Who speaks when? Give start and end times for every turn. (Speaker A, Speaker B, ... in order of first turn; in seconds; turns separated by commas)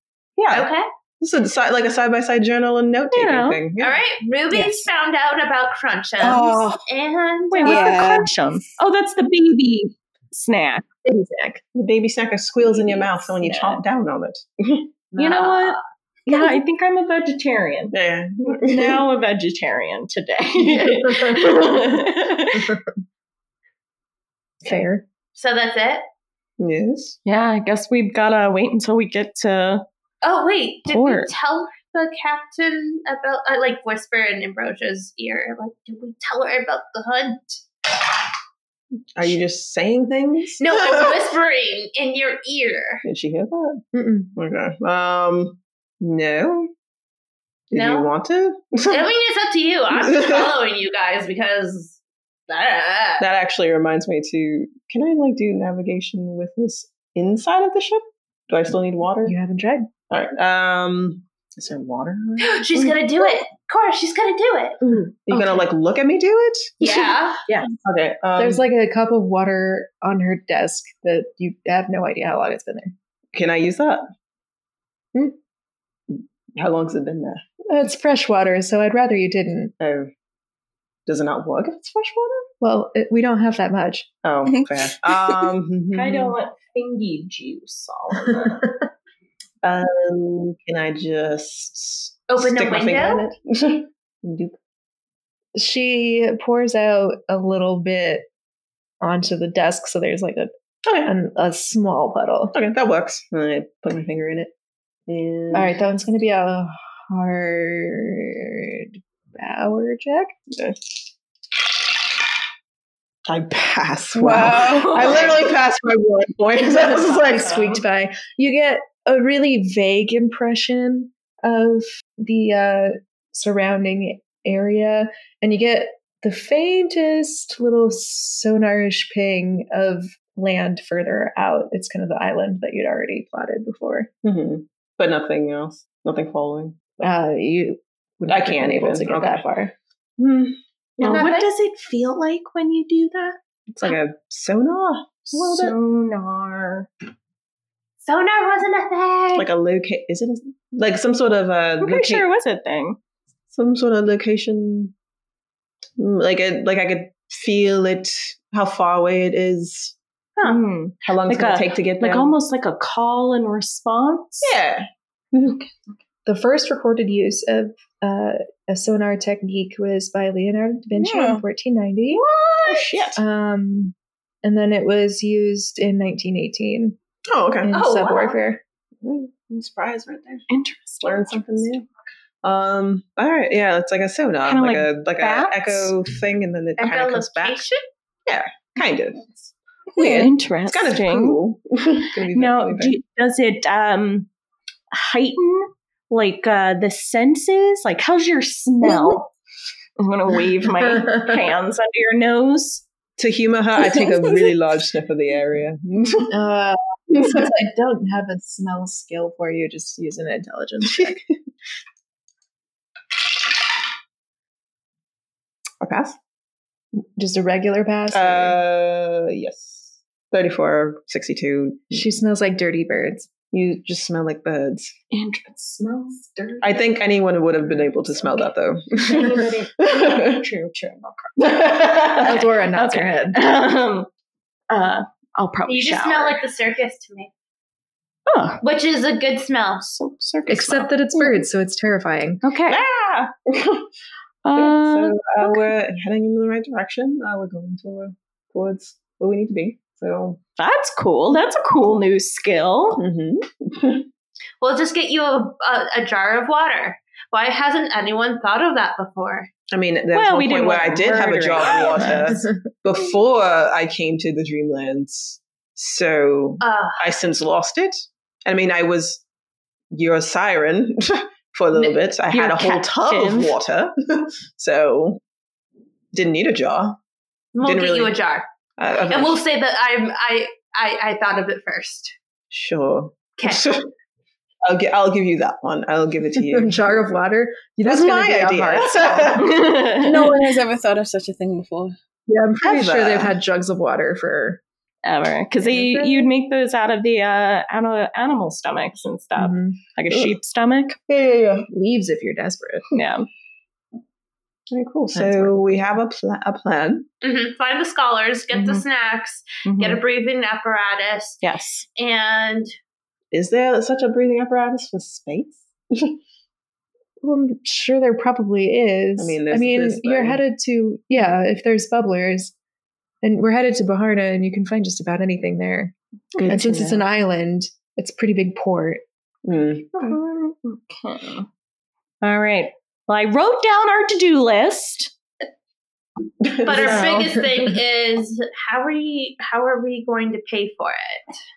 Speaker A: 0.4-4.0, Speaker B: 0.5-0.8, Speaker C: 3.1-3.6, Speaker B: 3.8-8.0, Speaker D: 4.5-4.8, Speaker D: 6.2-6.8, Speaker C: 7.5-10.8, Speaker D: 7.6-8.3, Speaker E: 11.0-11.6, Speaker A: 11.7-14.9, Speaker C: 13.3-13.8, Speaker B: 15.1-15.8, Speaker C: 15.2-17.9, Speaker A: 17.9-19.1, Speaker C: 18.5-22.8, Speaker E: 21.0-21.4, Speaker E: 24.6-25.0, Speaker B: 25.3-26.0, Speaker A: 26.6-27.1, Speaker C: 27.2-29.8, Speaker B: 30.2-37.6, Speaker C: 30.9-31.3, Speaker A: 39.1-41.2, Speaker B: 40.6-43.0, Speaker A: 43.0-43.8, Speaker E: 43.9-44.3, Speaker A: 44.4-46.7, Speaker A: 47.7-49.1, Speaker B: 47.7-48.1, Speaker B: 48.9-52.0, Speaker A: 49.9-50.5, Speaker B: 52.5-53.2, Speaker A: 53.2-59.4, Speaker E: 59.2-59.9, Speaker A: 60.1-63.4, Speaker B: 62.4-64.8, Speaker A: 65.1-67.0, Speaker B: 66.8-67.4, Speaker A: 67.8-68.6, Speaker E: 68.4-72.9, Speaker A: 73.3-74.0, Speaker A: 76.1-77.4, Speaker E: 77.7-79.7, Speaker A: 79.8-80.1, Speaker A: 81.0-82.5, Speaker E: 82.6-84.1, Speaker A: 84.2-86.4, Speaker C: 85.9-88.5, Speaker A: 89.6-94.5, Speaker B: 92.3-93.2, Speaker E: 95.5-98.3, Speaker E: 99.0-100.5, Speaker A: 100.8-101.1, Speaker E: 101.0-102.5, Speaker A: 102.5-104.5, Speaker A: 105.1-105.7, Speaker E: 105.5-110.3, Speaker A: 110.5-110.8, Speaker A: 113.2-117.8, Speaker D: 114.1-115.1, Speaker C: 114.7-115.3, Speaker E: 116.8-134.1, Speaker A: 134.2-136.8, Speaker E: 137.0-139.7, Speaker A: 138.3-139.5, Speaker A: 140.2-141.2, Speaker B: 141.0-141.5, Speaker C: 141.0-143.9, Speaker A: 143.7-145.8, Speaker C: 145.3-146.9, Speaker B: 148.0-149.5, Speaker A: 149.3-152.2, Speaker C: 151.8-153.0, Speaker A: 153.5-154.9, Speaker A: 156.0-159.9, Speaker C: 160.4-164.6, Speaker A: 161.0-162.3, Speaker A: 164.4-165.7, Speaker E: 166.2-172.2, Speaker D: 170.9-171.4, Speaker C: 172.2-173.1, Speaker A: 172.6-173.2, Speaker E: 173.2-176.9, Speaker A: 177.3-177.8, Speaker E: 177.6-178.6, Speaker B: 177.7-178.4, Speaker A: 179.0-180.4, Speaker C: 180.5-181.8, Speaker A: 181.0-181.8, Speaker A: 182.4-187.6, Speaker C: 184.4-185.9, Speaker B: 186.8-187.8, Speaker A: 188.2-193.0, Speaker D: 189.9-190.3, Speaker C: 190.0-191.4, Speaker C: 192.3-194.3, Speaker C: 194.9-199.3, Speaker C: 200.0-202.8, Speaker A: 203.2-206.3, Speaker E: 206.3-211.2, Speaker A: 215.8-216.2, Speaker E: 217.2-218.6, Speaker A: 218.1-222.1, Speaker E: 221.9-223.3, Speaker A: 223.5-224.9, Speaker C: 225.1-226.8, Speaker A: 226.6-230.4, Speaker C: 227.9-228.4, Speaker C: 229.0-234.1, Speaker A: 231.4-232.4, Speaker E: 232.2-233.4, Speaker C: 234.7-236.4, Speaker B: 235.7-237.3, Speaker C: 238.3-238.6, Speaker B: 238.6-239.9, Speaker C: 239.8-241.4, Speaker E: 240.5-242.4, Speaker C: 242.4-242.8, Speaker A: 242.7-243.9, Speaker C: 244.4-245.7, Speaker A: 244.5-250.4, Speaker C: 250.6-253.0, Speaker A: 252.9-254.1, Speaker B: 254.6-259.5, Speaker A: 259.7-269.2, Speaker C: 260.1-262.4, Speaker B: 266.6-267.1, Speaker A: 269.9-275.2, Speaker C: 272.3-273.6, Speaker A: 276.1-277.0, Speaker B: 277.5-278.5, Speaker A: 277.6-278.2, Speaker A: 278.8-279.4, Speaker B: 279.1-282.1, Speaker A: 282.5-283.9, Speaker B: 283.4-283.7, Speaker A: 284.6-287.0, Speaker E: 286.5-289.4, Speaker A: 287.8-289.6, Speaker C: 289.4-290.4, Speaker D: 289.9-291.9, Speaker E: 292.3-294.6, Speaker A: 292.6-293.4, Speaker C: 295.0-301.0, Speaker E: 295.6-296.3, Speaker E: 299.4-299.8, Speaker A: 301.1-301.6, Speaker E: 301.7-302.8, Speaker C: 302.9-303.3, Speaker A: 304.7-307.1, Speaker B: 307.2-311.4, Speaker C: 309.6-310.0, Speaker C: 311.4-311.9, Speaker B: 311.9-312.7, Speaker A: 313.3-316.2, Speaker E: 317.2-322.5, Speaker A: 319.2-320.4, Speaker E: 323.2-325.9, Speaker C: 326.3-326.9, Speaker A: 326.3-327.0, Speaker E: 326.5-329.0, Speaker A: 329.4-330.2, Speaker C: 329.9-331.5, Speaker C: 332.2-335.1, Speaker A: 336.4-337.1, Speaker B: 336.6-341.3, Speaker C: 336.8-337.1